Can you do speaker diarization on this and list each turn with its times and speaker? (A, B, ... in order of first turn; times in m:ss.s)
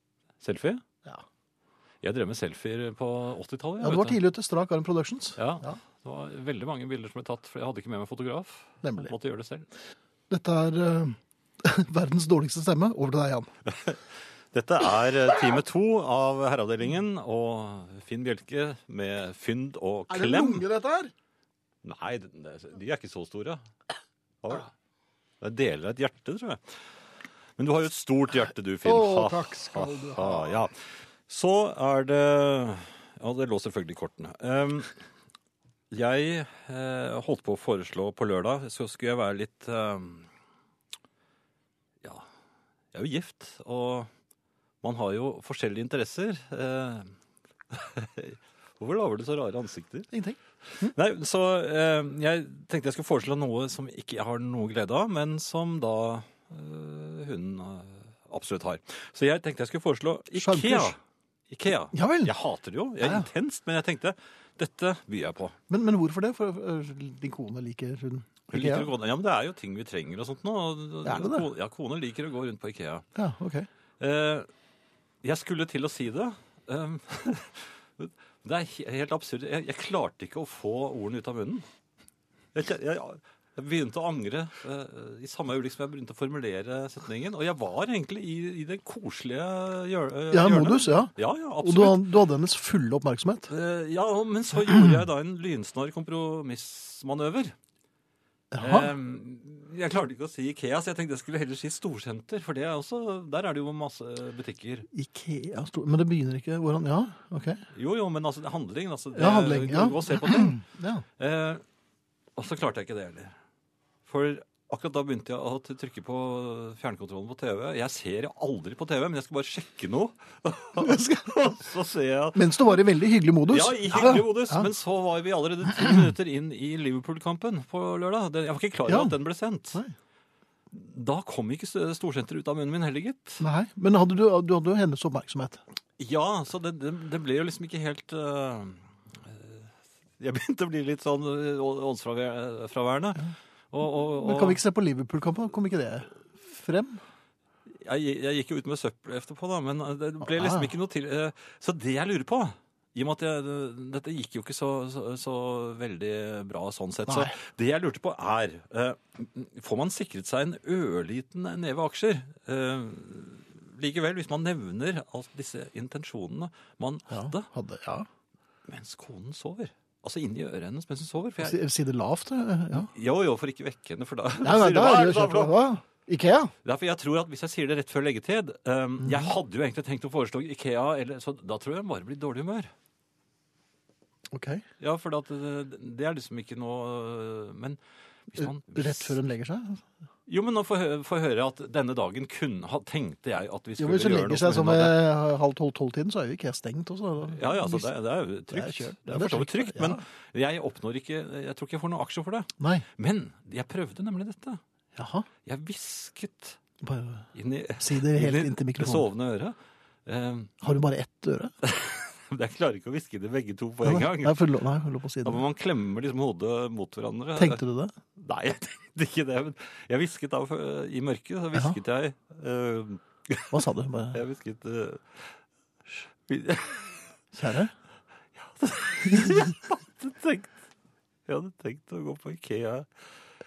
0:00.4-0:00.8 A
0:02.0-0:04.2 A
0:03.8-0:05.8 B
0:05.4-0:09.7 A
0:08.8-0:09.1 B
0:10.3-0:13.5 B
0:13.7-0:20.7 A
0:20.1-0:21.1 B
0:21.8-0:23.6 A
0:24.4-0:24.7 A
0:25.4-0:26.8 A
0:27.6-0:35.0 A
0:28.8-0:30.6 B
0:35.9-0:40.3 A
0:42.9-0:44.1 A
0:44.8-0:47.1 A
0:47.7-0:50.1 A
0:50.1-0:50.9 B
0:50.8-1:01.0 A
1:00.4-1:01.0 B
1:01.5-1:05.6 A
1:01.9-1:02.3 B
1:05.7-1:08.9 B
1:08.5-1:13.0 A
1:11.0-1:11.5 B
1:13.2-1:13.7 B
1:14.0-1:14.5 A
1:15.2-1:21.6 A
1:22.5-1:32.1 A
1:30.3-1:33.5 B
1:33.5-1:37.6 A
1:38.5-1:38.9 B
1:38.6-1:44.9 A
1:44.9-1:47.6 B
1:47.7-1:50.6 A
1:49.2-1:51.0 B
1:51.2-1:51.6 A
1:52.4-1:53.4 A
1:54.0-2:02.8 A
2:00.8-2:01.5 B
2:02.4-2:04.7 B
2:03.5-2:09.8 A
2:08.9-2:09.2 B
2:10.7-2:13.4 A
2:13.4-2:15.6 B
2:16.0-2:24.6 A
2:24.2-2:27.0 B
2:27.7-2:47.5 A
2:30.2-2:30.7 B
2:37.1-2:37.4 B
2:47.1-2:48.1 B
2:48.7-2:51.6 A
2:51.4-2:52.9 B
2:52.7-2:55.7 A
2:54.4-2:56.5 B
2:56.6-3:02.7 A
2:59.0-2:59.3 B
3:04.3-3:04.6 B
3:04.8-3:07.8 A
3:08.3-3:09.2 A
3:08.3-3:09.9 B
3:10.3-3:15.0 A
3:13.8-3:17.9 B
3:17.3-3:24.6 A
3:18.5-3:20.0 B
3:22.6-3:22.9 B
3:25.0-3:25.3 B
3:25.4-3:26.6 A
3:26.8-3:27.3 B
3:27.3-3:30.5 A
3:27.8-3:29.1 B
3:30.6-3:31.5 B
3:31.6-3:34.5 A
3:33.8-3:35.4 B
3:35.2-3:37.6 A
3:37.4-3:38.0 B
3:38.2-3:43.6 A
3:43.5-3:44.2 B
3:44.1-3:45.4 A
3:46.3-3:47.2 A
3:47.3-3:47.7 B
3:48.4-3:50.6 A
3:51.3-3:53.0 A